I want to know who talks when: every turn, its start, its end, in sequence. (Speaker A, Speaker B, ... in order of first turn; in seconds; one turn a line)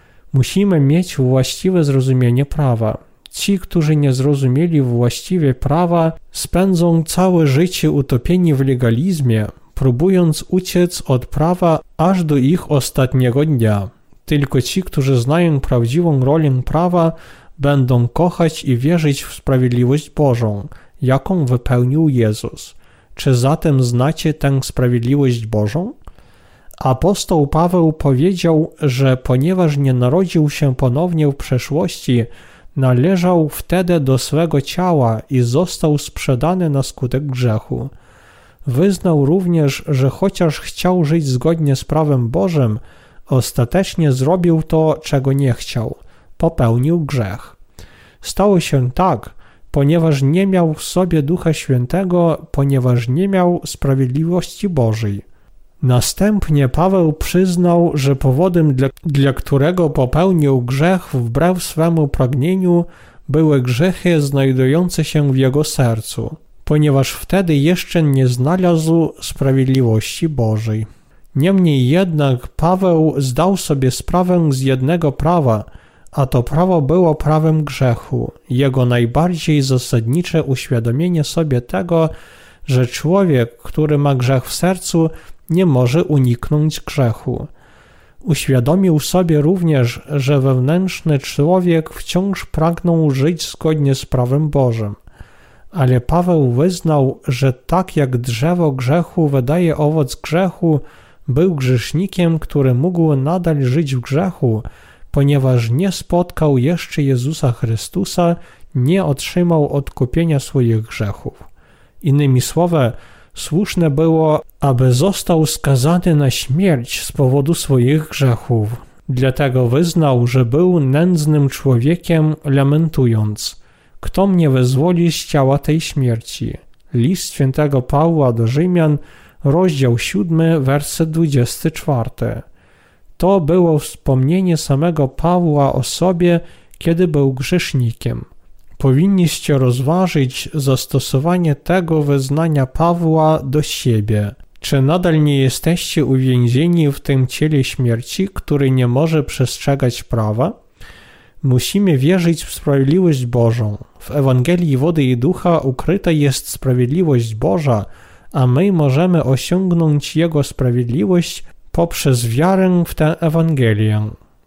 Speaker A: 0.3-25.9
Speaker A: 26.8-37.9
Speaker A: 38.6-47.6
Speaker A: 48.2-55.2
Speaker A: 55.8-82.1
Speaker A: 82.7-87.5
Speaker A: 88.2-95.0
Speaker A: 95.7-111.5
Speaker A: 112.0-132.4
Speaker A: 133.2-150.6
Speaker A: 151.4-164.2